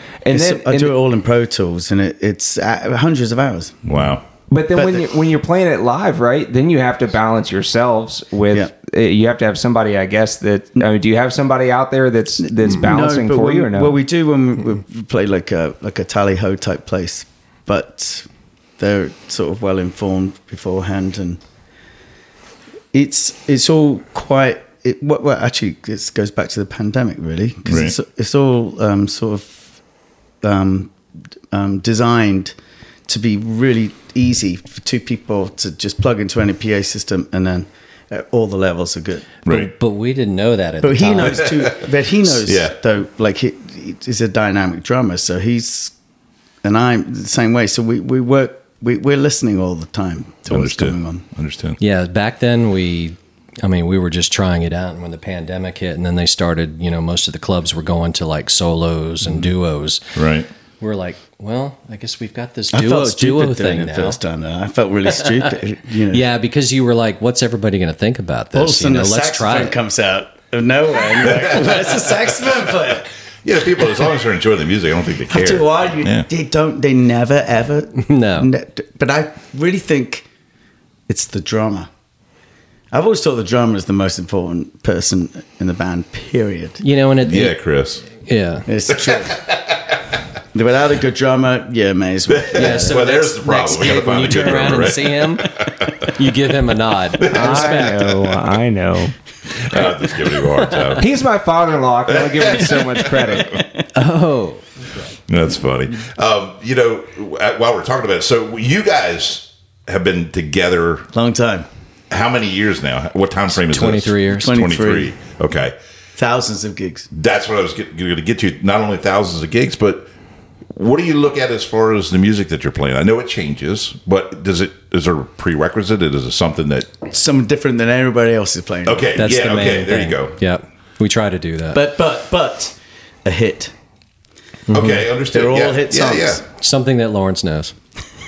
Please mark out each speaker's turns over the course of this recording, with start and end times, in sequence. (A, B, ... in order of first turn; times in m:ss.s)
0:00.2-0:00.9 A
0:00.3-0:03.8 B
0:03.8-0:04.2 C
0:04.5-0:14.0 A
0:04.8-0:05.0 B
0:12.4-0:18.3 B
0:18.8-0:21.4 B
0:22.9-0:29.7 B
0:27.6-0:27.9 C
0:30.4-0:30.9 B
0:31.5-0:32.5 B
0:33.1-0:39.4 B
0:39.5-0:41.5 D
0:40.8-0:45.9 B
0:41.4-0:42.8 C
0:46.6-0:51.2 B
0:50.5-0:51.8 C
0:51.8-1:00.2 D
1:00.2-1:00.5 C
1:00.8-1:04.2 D
1:02.7-1:06.2 B
1:06.1-1:09.7 D
1:08.5-1:13.1 B
1:11.2-1:16.3 C
1:15.3-1:20.3 B
1:18.0-1:18.5 D
1:21.1-1:21.9 B
1:22.9-1:26.8 B
1:26.8-1:27.5 D
1:27.2-1:28.0 C
1:28.2-1:28.6 D
1:28.7-1:29.4 B
1:29.0-1:30.0 C
1:30.5-1:33.1 B
1:32.3-1:36.0 C
1:32.5-1:38.1 D
1:37.2-1:38.0 C
1:37.3-1:39.1 A
1:39.5-1:41.1 C
1:41.0-1:43.6 A
1:42.1-1:43.6 C
1:43.4-1:43.8 B
1:43.9-1:44.6 D
1:45.3-1:51.1 C
1:51.1-1:51.7 B
1:52.1-1:55.8 C
1:53.6-1:54.5 D
1:54.3-1:55.1 B
1:56.2-1:57.1 B
1:57.1-2:00.1 C
2:00.7-2:07.0 C
2:07.1-2:09.3 B
2:08.8-2:10.4 C
2:09.2-2:11.8 D
2:11.7-2:13.7 B
2:14.7-2:16.4 C
2:14.7-2:15.0 D
2:15.3-2:16.4 B
2:16.6-2:17.7 D